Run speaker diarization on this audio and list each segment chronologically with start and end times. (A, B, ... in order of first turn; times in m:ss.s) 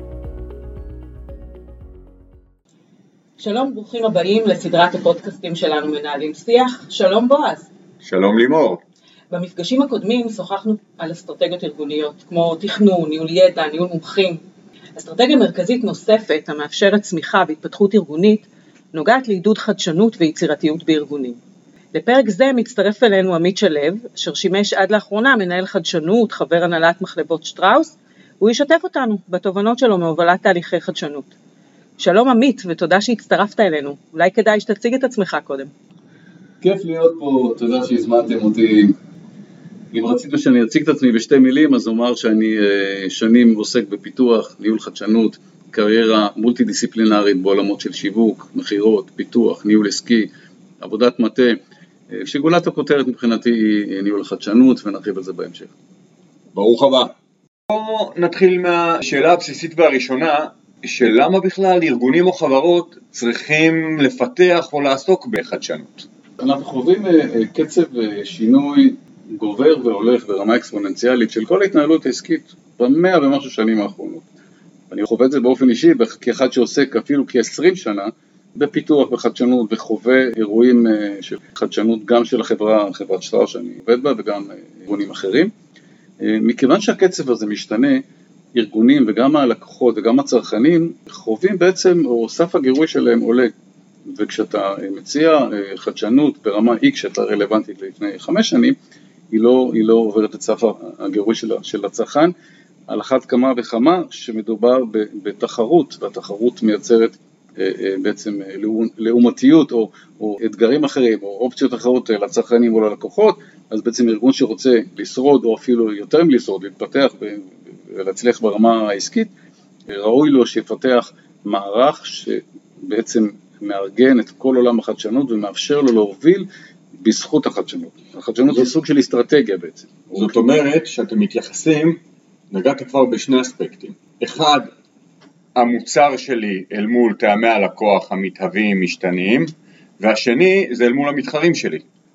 0:03.4-0:07.7 A
0:08.0-0:08.8 B
0:09.3-0:14.4 A
0:15.0-0:21.4 A
0:21.9-0:31.3 A
0:32.0-0:35.7 A
0:36.6-0:38.9 C
0:39.9-0:51.6 C
0:52.1-0:55.7 C
0:56.5-0:57.1 B
0:57.7-1:06.1 B
1:06.4-1:14.3 C
1:14.9-1:25.5 C
1:26.2-1:28.0 C
1:28.5-1:33.5 C
1:34.1-1:38.8 C
1:39.3-1:42.3 C
1:42.9-1:59.3 C
1:59.9-2:06.5 C
2:07.0-2:10.3 C
2:10.2-2:12.0 B
2:12.5-2:14.7 B
2:15.6-2:21.8 B